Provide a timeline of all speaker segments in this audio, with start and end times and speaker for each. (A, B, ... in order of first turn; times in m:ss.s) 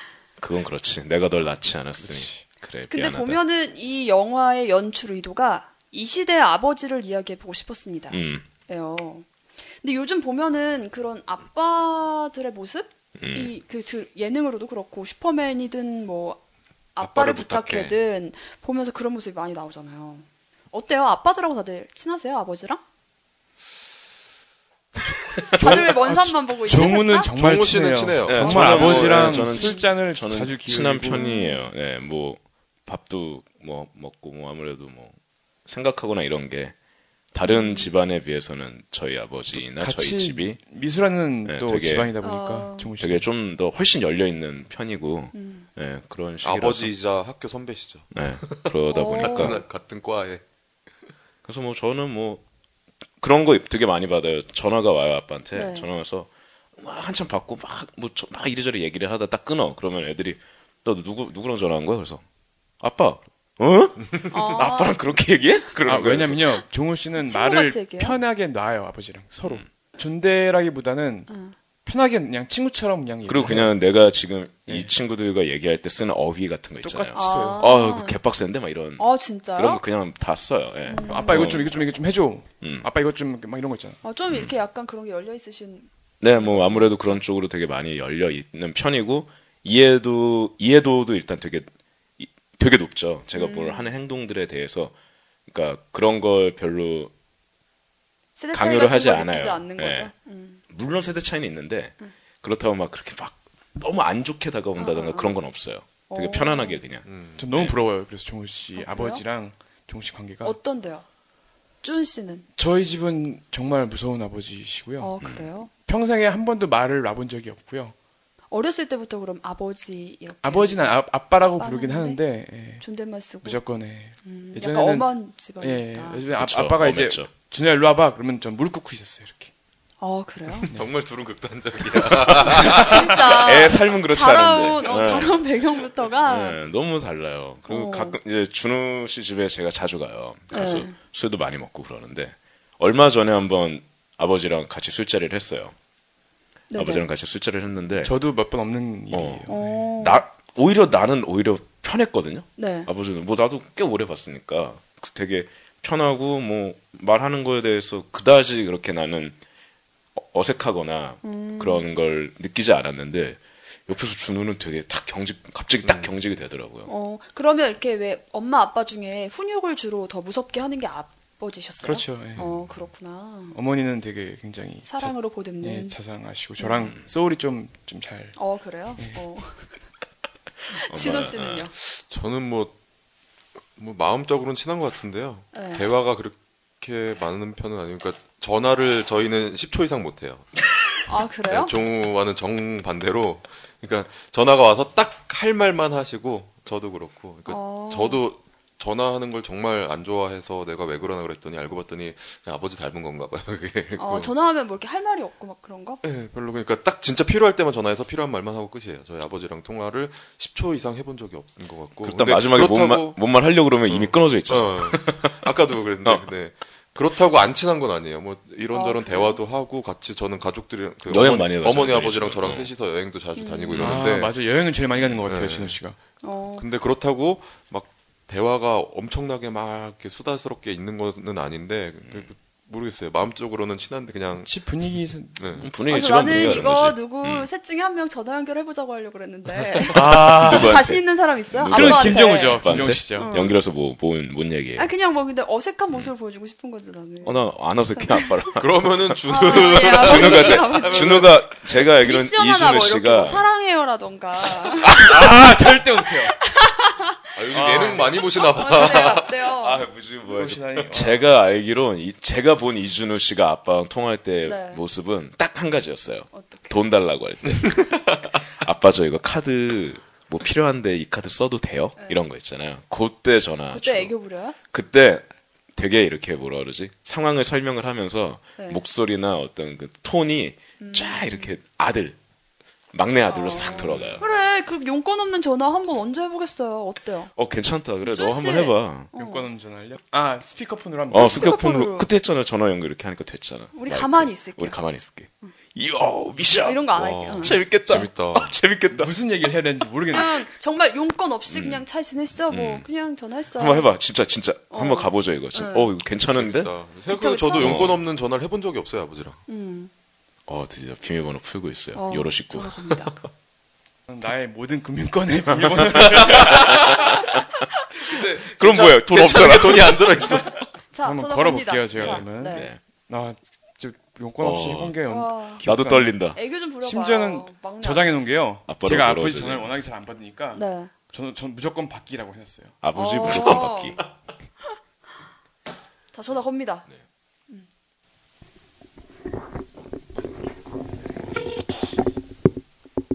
0:00.4-0:03.4 A
0:02.0-0:02.4 B
0:02.9-0:16.4 C
0:08.1-0:08.4 A
0:13.2-0:13.5 A
0:16.9-0:22.8 C
0:17.0-0:18.0 D
0:25.1-0:26.0 A
0:25.6-0:27.3 C
0:25.6-0:31.3 B
0:27.3-0:29.4 D
0:28.3-0:36.7 A
0:28.7-0:29.9 C
0:31.1-0:31.6 C
0:37.3-0:40.6 A
0:37.4-0:37.9 C
0:39.5-0:43.3 B
0:41.4-0:42.1 A
0:42.2-0:42.9 C
0:43.0-0:46.9 A
0:45.3-0:45.7 C
0:46.4-0:50.4 D
0:48.1-0:49.6 A
0:48.9-0:49.6 C
0:51.4-0:52.4 A
0:53.2-1:02.2 A
0:55.5-0:55.9 C
1:02.8-1:06.6 A
1:04.3-1:05.0 C
1:05.8-1:11.3 B
1:07.2-1:08.2 C
1:11.3-1:11.5 C
1:11.8-1:13.8 B
1:13.2-1:21.7 A
1:16.8-1:17.7 B
1:17.1-1:18.2 C
1:19.0-1:19.8 C
1:20.8-1:21.6 C
1:21.0-1:24.0 B
1:22.6-1:22.9 A
1:24.0-1:27.1 C
1:26.2-1:34.9 A
1:33.3-1:33.9 C
1:35.5-1:37.1 A
1:38.4-1:40.6 C
1:38.5-1:40.1 A
1:40.7-1:47.0 A
1:44.8-1:45.4 C
1:46.1-1:46.8 C
1:47.0-1:47.7 D
1:47.4-1:50.6 B
1:48.8-1:49.2 C
1:50.4-1:51.0 C
1:51.8-1:52.4 C
1:52.6-1:55.1 B
1:55.0-1:55.7 C
1:55.2-1:55.5 A
1:55.7-1:57.9 B
1:58.5-2:02.2 C
2:00.4-2:02.8 B
2:02.8-2:03.6 C
2:03.4-2:09.5 B
2:04.2-2:06.2 C
2:06.3-2:07.3 A
2:10.0-2:10.7 C
2:10.7-2:12.9 D
2:12.0-2:15.5 A
2:12.6-2:16.6 C
2:16.2-2:25.7 A
2:17.7-2:18.2 C
2:20.5-2:21.0 C
2:26.7-2:27.0 C
2:26.8-2:28.1 A
2:28.0-2:29.9 B
2:29.1-2:39.4 A
2:29.5-2:30.2 C
2:32.6-2:32.9 C
2:40.1-2:46.9 A
2:41.2-2:41.9 C
2:45.8-2:46.1 D
2:46.9-2:53.6 C
2:51.8-2:52.5 B
2:53.5-2:58.4 B
2:54.9-2:56.0 C
2:56.6-2:56.9 C
2:58.4-2:59.7 C
3:00.7-3:01.7 C
3:00.8-3:01.7 A
3:01.8-3:02.7 D
3:03.8-3:10.6 D
3:05.5-3:05.8 C
3:11.0-3:11.8 C
3:11.4-3:24.3 D
3:17.5-3:18.2 C
3:24.0-3:26.0 C
3:26.0-3:33.2 D
3:32.0-3:35.4 A
3:33.9-3:44.4 D
3:38.7-3:39.4 C
3:41.0-3:42.7 A
3:43.4-3:44.0 C
3:43.8-3:46.0 B
3:45.0-3:45.8 D
3:46.2-3:46.6 C
3:46.6-3:54.5 D
3:54.4-3:55.6 B
3:55.4-3:55.7 D
3:55.6-3:57.5 A
3:55.9-4:03.5 C
3:59.9-4:00.8 B
4:00.0-4:04.9 A
4:01.7-4:03.4 B
4:04.8-4:08.5 C
4:07.2-4:13.5 A
4:08.6-4:11.5 D
4:09.3-4:15.2 C
4:14.8-4:15.3 A
4:15.0-4:16.4 B
4:16.4-4:17.4 C
4:17.3-4:19.3 D
4:17.5-4:18.1 B
4:18.3-4:19.8 C
4:19.4-4:34.1 A
4:20.2-4:21.2 B
4:24.4-4:24.8 C
4:26.3-4:26.8 C
4:27.5-4:28.2 D
4:32.0-4:32.2 C
4:33.7-4:34.6 C
4:34.7-4:42.2 A
4:40.8-4:41.5 C
4:42.9-4:44.2 A
4:43.3-4:47.3 C
4:43.8-4:44.4 D
4:47.3-4:49.1 A
4:48.0-4:49.5 C
4:49.1-4:51.5 B
4:51.1-4:59.1 A
4:51.1-4:52.1 C
4:53.7-4:54.8 C
4:56.5-4:57.6 C
4:57.0-4:58.5 D
4:58.9-5:00.4 B
5:00.1-5:03.9 C
5:01.5-5:01.8 A
5:02.5-5:02.8 A
5:03.5-5:06.7 A
5:04.7-5:05.9 C
5:06.3-5:09.4 D
5:07.1-5:07.8 C
5:07.6-5:08.0 A
5:09.5-5:09.9 C
5:10.5-5:13.1 A
5:11.9-5:13.1 C
5:14.1-5:16.7 B
5:15.6-5:17.4 A
5:16.1-5:17.0 D
5:18.0-5:20.6 D
5:18.5-5:20.1 A
5:20.9-5:22.7 C
5:21.0-5:26.3 B
5:21.9-5:22.8 A
5:24.4-5:25.0 A
5:25.0-5:25.6 C
5:25.6-5:26.4 A
5:26.3-5:28.2 C
5:26.8-5:32.8 B
5:28.7-5:29.7 A
5:30.5-5:30.9 C
5:32.8-5:34.0 A
5:32.9-5:34.0 C
5:36.1-5:36.9 C